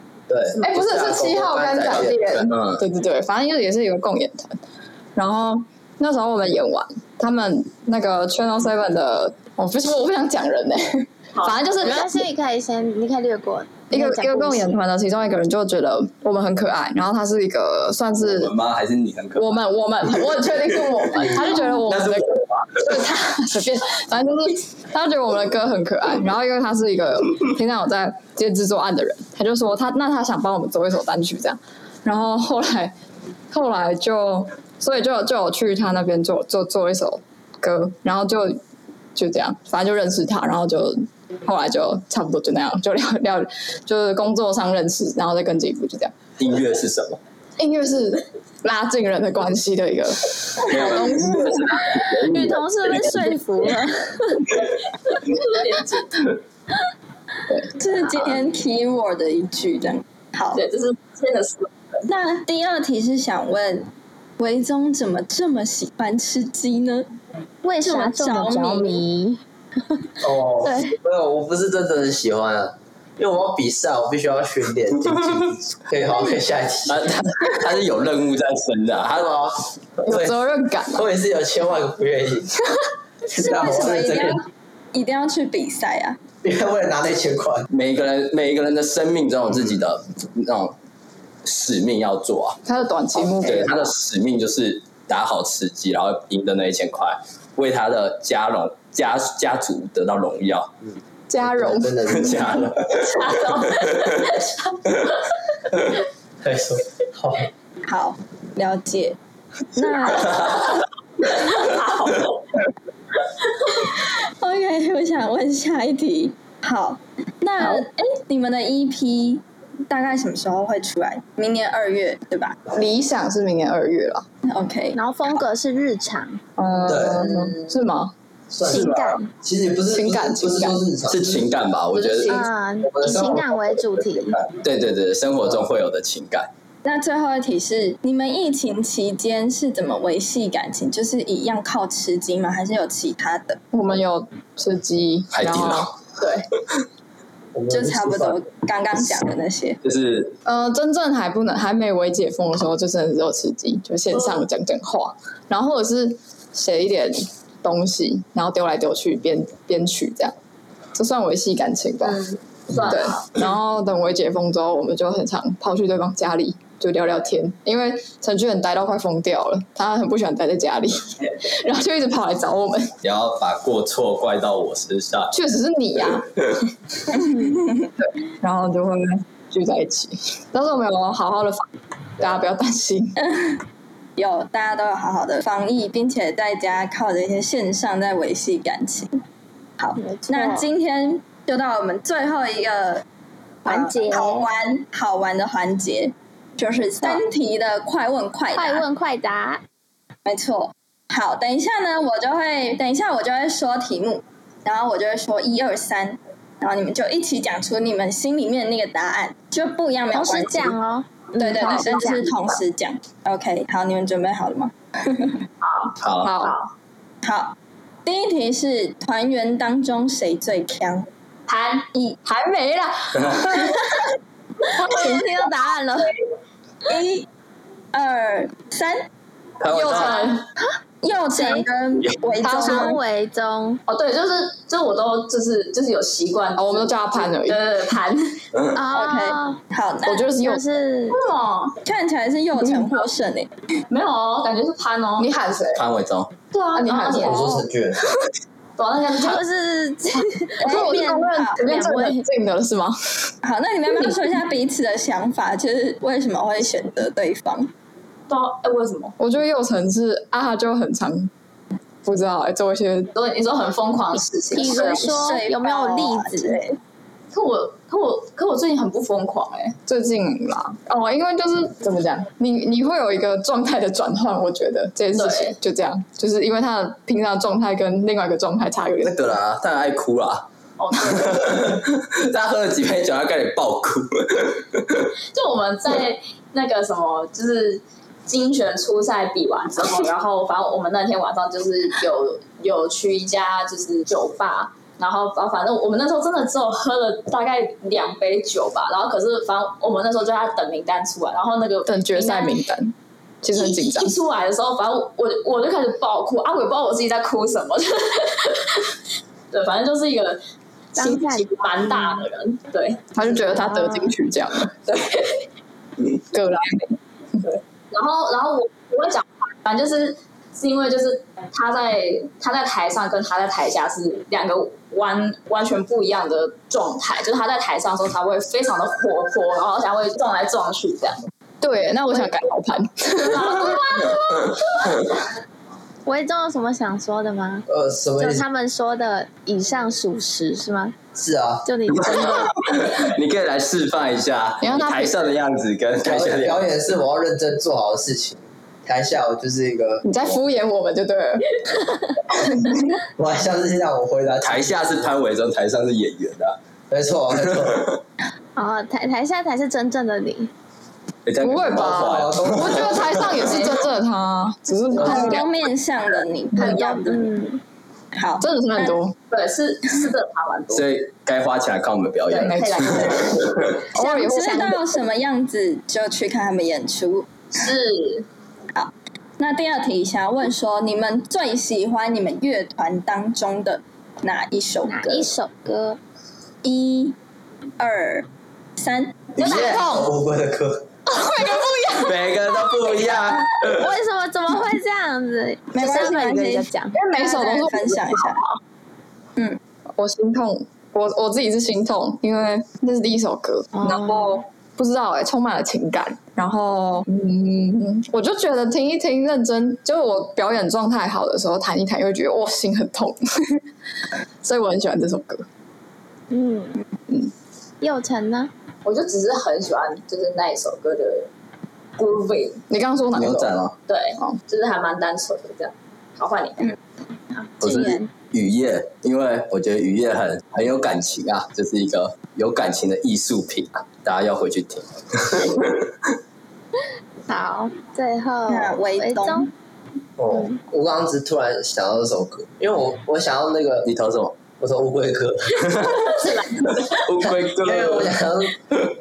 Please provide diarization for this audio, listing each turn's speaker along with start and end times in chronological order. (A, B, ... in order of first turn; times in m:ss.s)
0:00.3-0:02.3 A
0:00.6-0:04.5 B
0:01.9-0:02.8 C
0:05.2-0:12.1 B
0:11.8-0:14.8 D
0:13.9-0:18.5 B
0:18.2-0:19.6 C
0:19.4-0:32.9 B
0:21.1-0:22.8 C
0:33.5-0:38.6 B
0:39.1-0:46.1 B
0:46.4-0:47.2 C
0:47.6-0:52.0 B
0:50.6-0:53.2 C
0:52.3-0:54.4 D
0:55.3-0:56.3 E
0:57.8-1:00.6 F
1:00.5-1:02.0 E
1:02.1-1:07.1 F
1:07.6-1:09.4 D
1:07.8-1:09.0 F
1:10.2-1:17.2 A
1:10.6-1:10.9 D
1:16.9-1:19.3 C
1:19.1-1:20.3 A
1:20.0-1:21.1 B
1:20.9-1:22.5 A
1:23.3-1:26.2 F
1:23.3-1:24.4 A
1:26.4-1:27.7 A
1:27.7-1:30.7 C
1:31.4-1:32.6 C
1:32.6-1:33.9 B
1:33.2-1:40.7 C
1:41.3-1:42.1 B
1:41.4-1:42.6 A
1:42.1-1:44.2 C
1:43.0-1:44.8 E
1:46.4-1:47.5 A
1:47.8-1:49.2 F
1:49.8-1:50.6 F
1:50.1-1:50.7 C
1:51.2-1:52.4 E
1:54.4-2:02.6 F
2:02.7-2:04.2 B
2:04.4-2:05.0 F
2:04.9-2:06.4 D
2:06.6-2:08.1 B
2:06.9-2:07.3 A
2:07.2-2:07.7 E
2:08.5-2:11.5 A
2:08.6-2:09.3 D
2:09.9-2:10.8 B
2:11.1-2:12.4 C
2:11.9-2:12.5 E
2:12.2-2:14.4 D
2:12.8-2:14.5 A
2:14.6-2:16.5 C
2:16.8-2:23.6 F
2:23.7-2:25.9 B
2:25.3-2:25.9 C
2:26.2-2:26.4 E
2:27.5-2:28.4 A
2:27.7-2:29.8 F
2:29.8-2:30.4 C
2:30.4-2:40.3 B
2:40.9-2:52.9 B
2:42.0-2:43.4 E
2:53.0-2:55.3 C
2:55.3-2:56.3 B
2:57.1-3:01.7 B
3:02.2-3:03.2 B
3:03.2-3:03.6 F
3:04.2-3:09.2 F
3:09.8-3:13.0 F
3:10.0-3:10.7 D
3:13.6-3:14.5 D
3:13.6-3:18.8 F
3:18.5-3:19.6 D
3:20.2-3:30.8 F
3:30.1-3:32.3 D
3:31.4-3:35.4 F
3:35.6-3:36.7 E
3:36.0-3:36.3 C
3:36.2-3:36.6 B
3:37.2-3:41.1 F
3:41.5-3:41.9 E
3:42.2-3:44.0 B
3:44.7-3:46.1 D
3:44.8-3:45.1 B
3:46.9-3:47.3 F
3:47.9-3:49.1 F
3:49.6-3:50.2 C
3:49.7-3:50.4 B
3:49.8-3:50.4 E
3:51.0-3:53.0 F
3:51.3-3:51.7 D
3:52.4-3:52.9 B
3:52.4-3:53.8 D
3:53.9-3:58.4 E
3:56.6-3:57.6 B
3:58.7-3:59.6 D
3:58.9-4:00.2 F
4:00.0-4:00.6 B
4:00.2-4:01.2 D
4:01.1-4:01.8 E
4:01.8-4:03.5 F
4:02.6-4:02.9 B
4:03.9-4:05.3 E
4:05.2-4:05.8 B
4:05.7-4:06.3 C
4:06.5-4:07.5 E
4:06.7-4:07.6 B
4:07.2-4:08.1 A
4:08.8-4:09.4 E
4:09.1-4:12.2 D
4:10.6-4:11.8 F
4:10.6-4:13.3 B
4:13.4-4:17.7 F
4:18.3-4:19.1 E
4:19.2-4:21.3 B
4:22.0-4:23.1 B
4:23.1-4:25.2 E
4:24.5-4:26.8 F
4:24.5-4:26.6 D
4:27.3-4:29.8 E
4:29.9-4:39.1 B
4:35.2-4:35.6 E
4:39.0-4:40.5 C
4:40.8-4:41.6 E
4:41.0-4:45.1 C
4:45.3-5:02.6 E
5:01.8-5:04.1 B
5:03.5-5:08.9 E
5:09.5-5:10.4 E
5:10.9-5:13.1 E
5:11.0-5:12.1 D
5:13.1-5:14.8 B
5:13.7-5:14.0 D
5:14.9-5:15.4 E
5:16.1-5:17.0 B
5:17.4-5:31.2 E
5:31.6-5:34.1 B
5:33.2-5:34.9 E
5:36.0-5:37.7 D
5:37.7-5:38.4 A
5:38.2-5:40.9 D
5:41.1-5:41.7 A
5:41.6-5:42.5 D
5:41.9-5:46.6 C
5:44.6-5:45.2 B
5:46.0-5:50.0 A
5:50.0-5:51.5 B
5:52.4-5:52.7 B
5:53.2-5:55.1 A
5:54.4-5:56.6 C
5:56.9-5:57.8 A
5:57.6-5:57.9 C
5:58.6-6:00.5 D
6:01.2-6:03.7 C
6:01.4-6:05.5 B
6:01.7-6:03.3 A
6:03.5-6:03.8 E
6:04.9-6:07.3 F
6:06.6-6:07.6 D
6:08.1-6:09.0 F
6:08.4-6:09.1 B
6:09.3-6:10.9 E
6:10.7-6:13.8 C
6:12.3-6:13.5 E
6:12.4-6:14.8 B
6:14.0-6:14.7 D
6:14.0-6:17.3 F
6:17.5-6:18.2 E
6:18.7-6:25.3 F
6:24.8-6:26.0 D
6:26.6-6:27.2 F
6:27.8-6:29.4 F
6:29.4-6:30.9 A
6:29.4-6:30.0 B
6:29.4-6:29.8 C
6:31.1-6:32.2 B
6:32.0-6:33.9 C
6:33.6-6:37.0 D
6:35.7-6:38.4 F
6:36.9-6:38.4 B
6:40.0-6:53.6 B
6:43.7-6:44.3 D
6:54.4-6:55.4 B
6:56.3-6:56.8 D
6:57.8-6:58.5 D
6:58.8-7:01.3 E
7:02.0-7:02.6 E
7:02.7-7:03.6 B
7:03.1-7:03.7 C
7:03.9-7:06.7 E
7:07.3-7:08.1 D
7:07.6-7:15.9 C
7:17.3-7:19.5 D
7:18.5-7:19.5 F
7:20.2-7:23.9 A
7:23.8-7:24.4 C
7:24.6-7:25.8 A
7:25.6-7:28.2 C
7:25.8-7:27.2 E
7:27.6-7:28.6 A